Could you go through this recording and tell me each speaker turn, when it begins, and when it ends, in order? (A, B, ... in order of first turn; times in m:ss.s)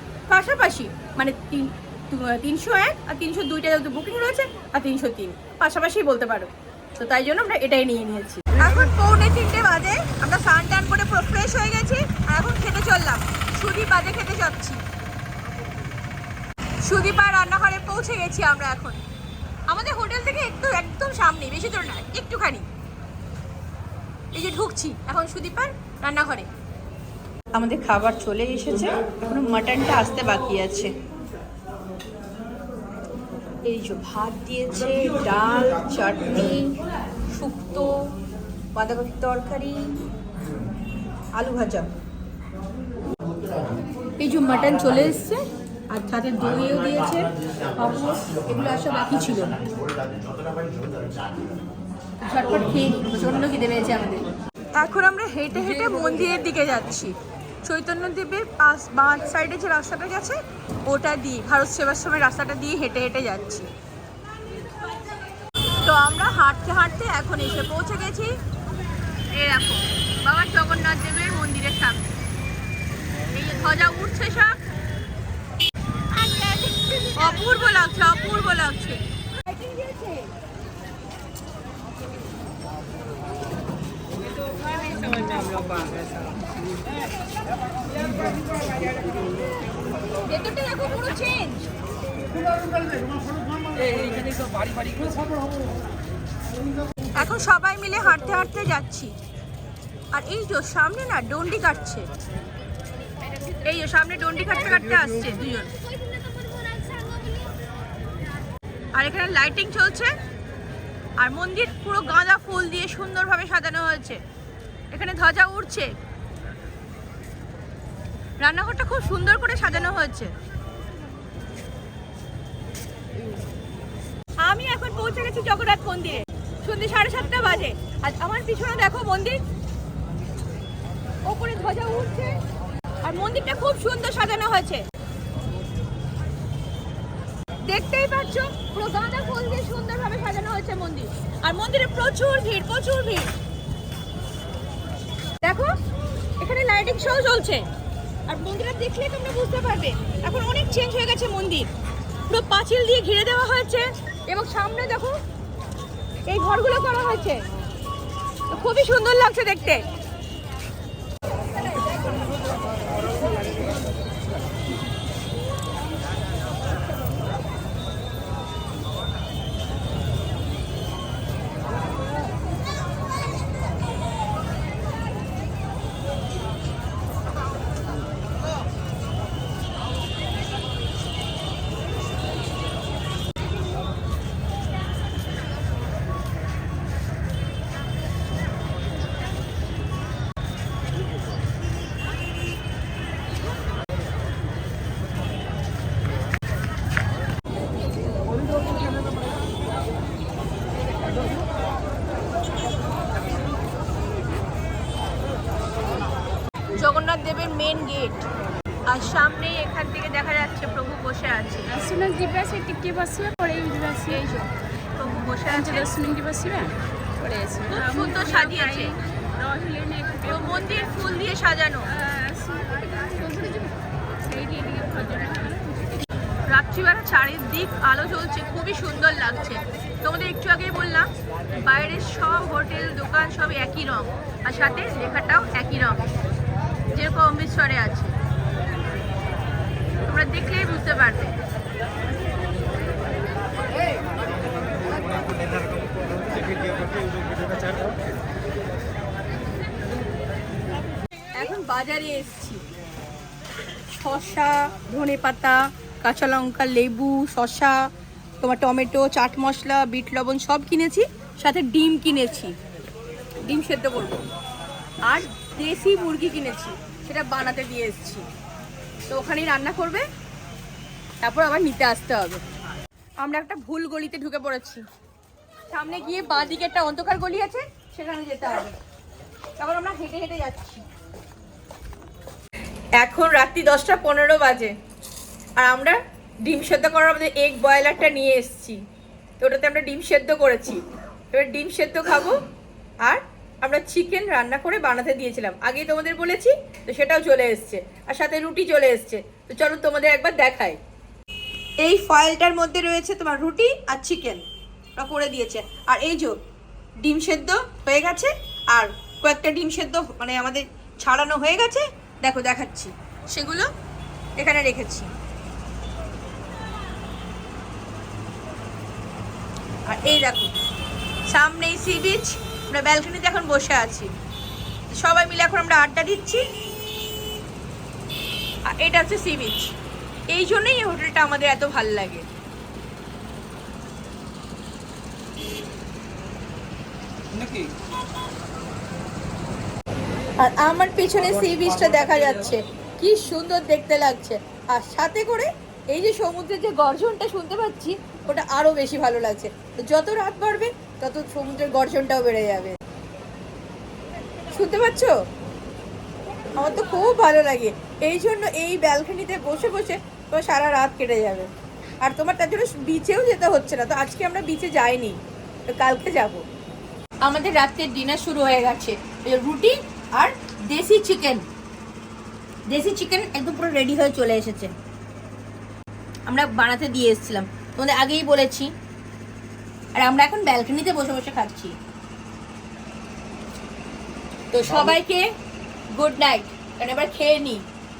0:00.3-0:14.8 A
0:16.8-0:19.0 A
0:19.7-0:22.7 A
0:24.3-0:26.5 A
0:27.5-0:30.9 A
0:33.6-0:36.8 A
0:37.3-0:38.1 A
0:38.7-0:39.9 A
0:41.3-0:41.9 A
0:44.2-0:49.6 A
0:52.2-1:03.7 A
1:05.7-1:08.3 A
1:09.3-1:12.0 A
1:13.3-1:14.6 A
1:16.1-1:20.3 A
1:25.3-1:25.8 B
1:30.2-1:31.7 A
1:33.7-1:35.4 B
1:37.1-1:39.2 A
1:40.1-1:42.1 A
1:43.3-1:47.4 A
1:48.9-1:50.1 A
1:51.2-1:54.2 A
1:54.9-1:55.9 A
1:58.4-2:00.3 A
2:04.4-2:09.4 A
2:11.2-2:12.4 A
2:13.0-2:14.8 A
2:17.6-2:23.3 A
2:25.4-2:25.8 A
2:26.4-2:27.7 A
2:28.3-2:31.7 A
2:32.3-2:35.2 A
2:36.3-2:37.4 A
2:38.5-2:39.8 A
3:26.7-3:28.2 A
3:28.9-3:31.8 A
3:31.7-3:34.2 C
3:34.1-3:36.1 A
3:35.7-3:37.8 C
3:37.7-3:39.0 A
3:38.9-3:40.3 C
3:40.2-3:42.0 A
3:42.0-3:46.0 C
3:46.4-3:56.1 A
3:56.9-3:58.2 A
4:00.0-4:01.4 A
4:11.3-4:12.6 A
4:13.9-4:17.9 A
4:18.4-4:22.6 A
4:23.4-4:24.2 A
4:25.0-4:28.3 A
4:29.1-4:30.1 A
4:31.2-4:32.4 A
4:33.2-4:34.9 A
4:35.7-4:38.8 A
4:39.6-4:40.8 A
4:43.0-4:44.7 A
4:45.6-4:48.8 A
4:49.4-4:52.4 A
4:53.0-5:00.8 A
5:01.8-5:06.4 A
5:07.0-5:13.7 A
5:14.4-5:15.1 A
5:19.9-5:20.6 A
5:21.3-5:24.1 A
5:25.0-5:26.4 A
5:28.6-5:29.8 A
5:30.3-5:32.3 A
5:37.4-5:37.6 B
5:40.4-5:52.8 A
5:54.5-5:55.1 A
5:56.6-6:01.5 A
6:02.0-6:06.5 A
6:07.2-6:11.5 A
6:12.7-6:14.8 A
6:16.3-6:18.7 A
6:20.0-6:21.8 A
6:24.5-6:25.3 A
6:25.9-6:27.7 A